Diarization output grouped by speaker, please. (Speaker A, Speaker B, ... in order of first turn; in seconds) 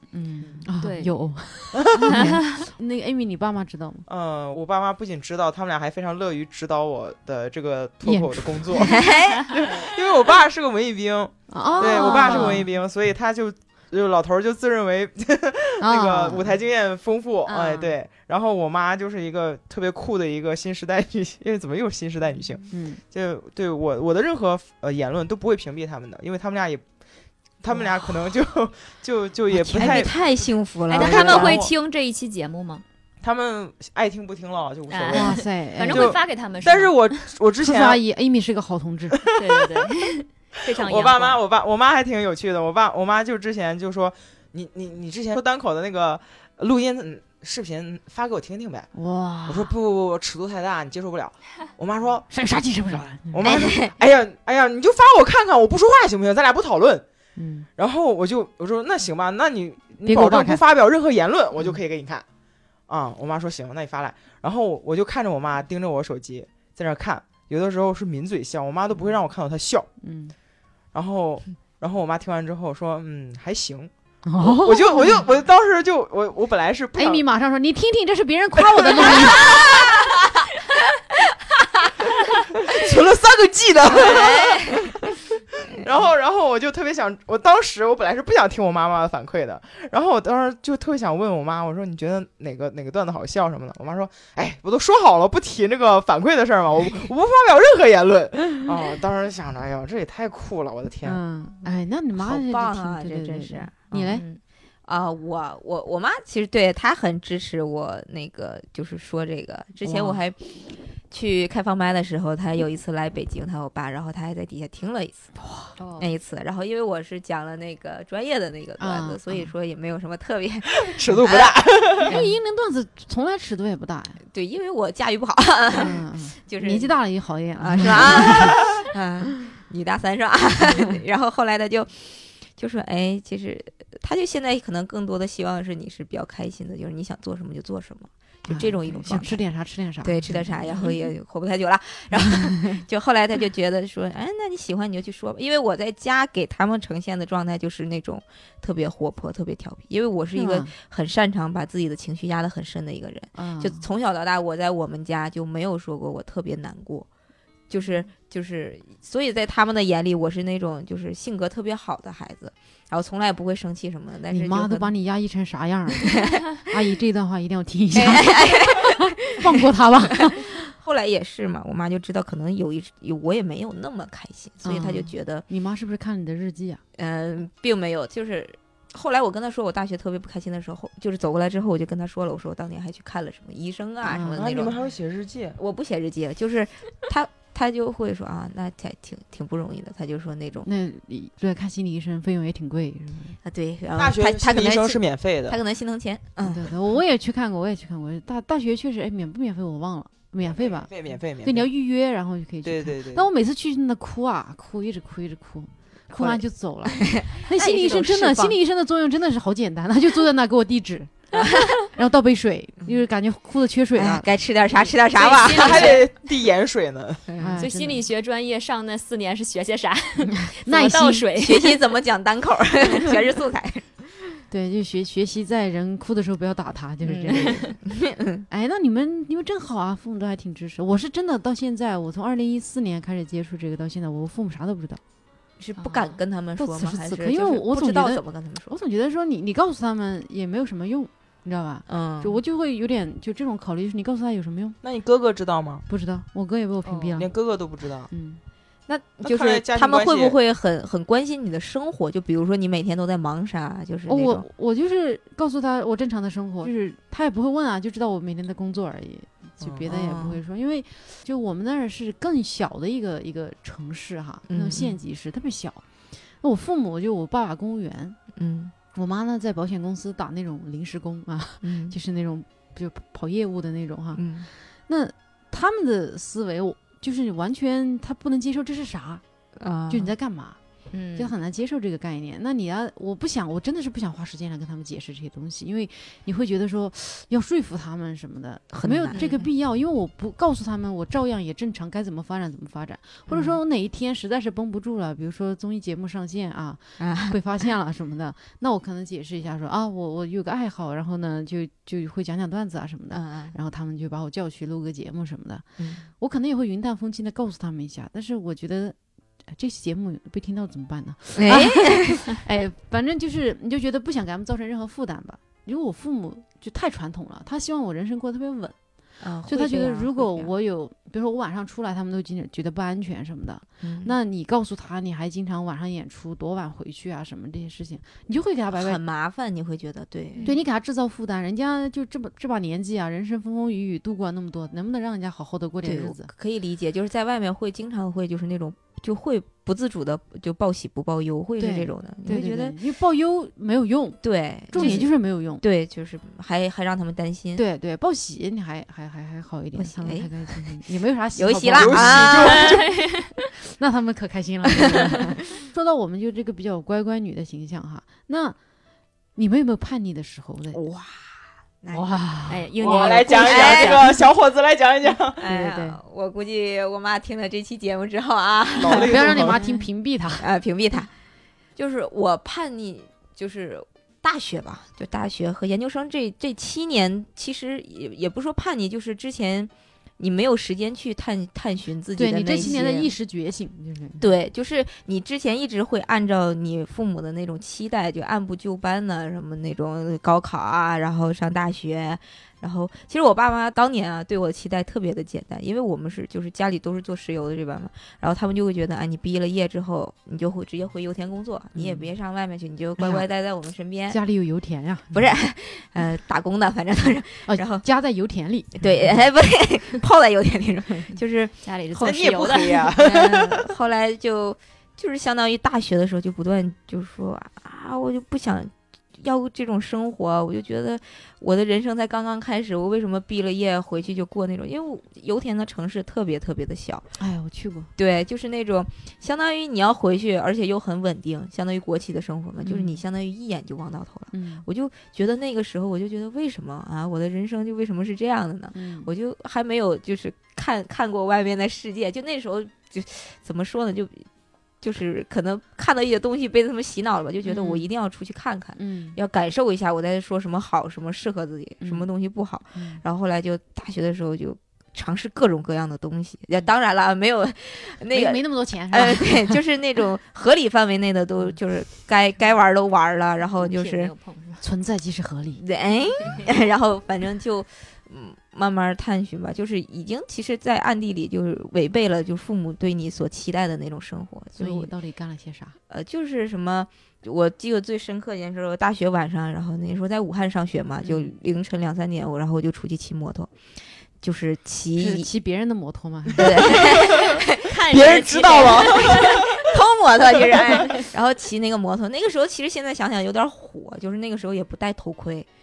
Speaker A: 0.1-4.0, 8.0-9.0, 11.5-12.7, 15.8-16.6, 17.4-18.0, 22.7-23.0, 29.6-30.1, 35.1-36.1, 37.6-39.2, 48.9-49.7, 52.3-53.6, 57.4-57.7, 60.0-60.6, 70.0-70.3, 74.2-75.2, 77.0-79.7, 101.0-104.2, 109.8-110.2, 115.4-115.7, 118.8-119.5, 122.0-124.2, 125.7-128.6, 138.5-141.0, 142.3-142.8, 150.3-150.7, 153.3-153.8, 164.3-170.5, 174.6-176.8, 184.0-184.6, 190.6-193.4, 196.4-211.1, 211.7-214.2, 217.4-218.0, 220.4-221.3, 224.5-227.8, 228.5-235.0, 236.6-244.8, 245.9-247.3, 248.1-248.4, 254.1-265.8, 266.4-268.2, 268.9-274.3, 274.9-279.2, 279.9-280.6, 281.1-318.8, 319.4-329.0, 330.4-336.3, 341.6-345.6, 347.6-352.8, 353.6-358.6, 359.4-360.8, 361.9-363.1, 365.4-366.0, 368.9-370.4, 382.1-384.2, 401.7-402.1, 403.0-403.2, 404.1-405.3, 407.5-409.1, 427.2-427.9, 432.6-433.0, 434.3-434.6, 438.7-439.1, 447.4-447.9, 448.8-449.2, 451.8-452.1, 452.7-453.0, 458.1-459.6, 464.6-465.6, 474.6-475.8, 481.0-481.3, 484.9-486.8
Speaker B: 0.4-0.7, 1.8-2.1, 4.1-26.9, 27.6-30.2, 30.9-31.7, 33.2-38.0, 40.7-48.9, 49.5-52.3, 53.0-57.0, 57.8-62.2, 62.9-69.9, 70.9-77.2, 78.8-79.4, 82.5-84.9, 85.7-101.2, 103.9-104.2, 120.8-122.1, 184.3-185.6, 193.9-195.6, 200.5-201.7, 202.6-203.3, 215.2-217.2, 244.8-245.8, 247.2-248.1, 249.2-250.3, 259.6-259.9, 351.7-352.8, 362.8-365.4, 368.8-369.6, 412.0-413.6, 486.7-489.6, 490.5-490.8
Speaker C: 0.8-1.1, 11.8-12.5, 30.9-32.8, 34.9-37.2, 39.4-41.4, 115.8-116.1, 215.4-216.0, 217.6-221.8, 227.3-227.7, 235.8-236.2, 246.8-247.1, 280.9-281.3, 352.6-353.3, 362.5-364.1, 411.6-412.9, 463.6-464.6, 487.6-489.3
Speaker D: 8.9-9.6, 29.5-31.6, 53.4-53.9, 79.1-80.2, 83.8-84.9, 102.2-104.3, 104.8-115.3, 116.0-122.3, 124.3-126.9, 127.6-139.4, 140.0-157.1, 157.7-164.9, 166.0-166.4, 167.9-175.4, 177.0-184.8, 185.6-190.7, 193.4-196.7, 206.1-208.6, 213.9-216.0, 217.3-217.6, 221.3-224.4, 227.0-228.4, 235.6-238.7, 241.9-242.4, 248.9-254.4, 259.9-260.4, 264.5-265.0, 268.4-268.7, 271.6-271.9, 274.1-274.5, 279.6-280.1, 288.7-289.4, 293.3-293.6, 297.0-297.4, 303.1-303.6, 305.8-306.1, 311.4-312.4, 319.2-320.5, 323.8-324.1, 328.7-330.5, 335.8-342.8, 344.2-347.6, 349.8-350.8, 351.3-352.7, 354.7-355.1, 360.7-362.1, 362.9-364.1, 365.4-369.8, 370.4-371.1, 371.8-383.1, 384.2-404.2, 405.1-407.8, 408.8-412.3, 412.9-427.1, 427.9-444.3, 444.8-464.1, 465.6-474.9, 475.9-483.5, 484.2-485.3, 486.4-495.5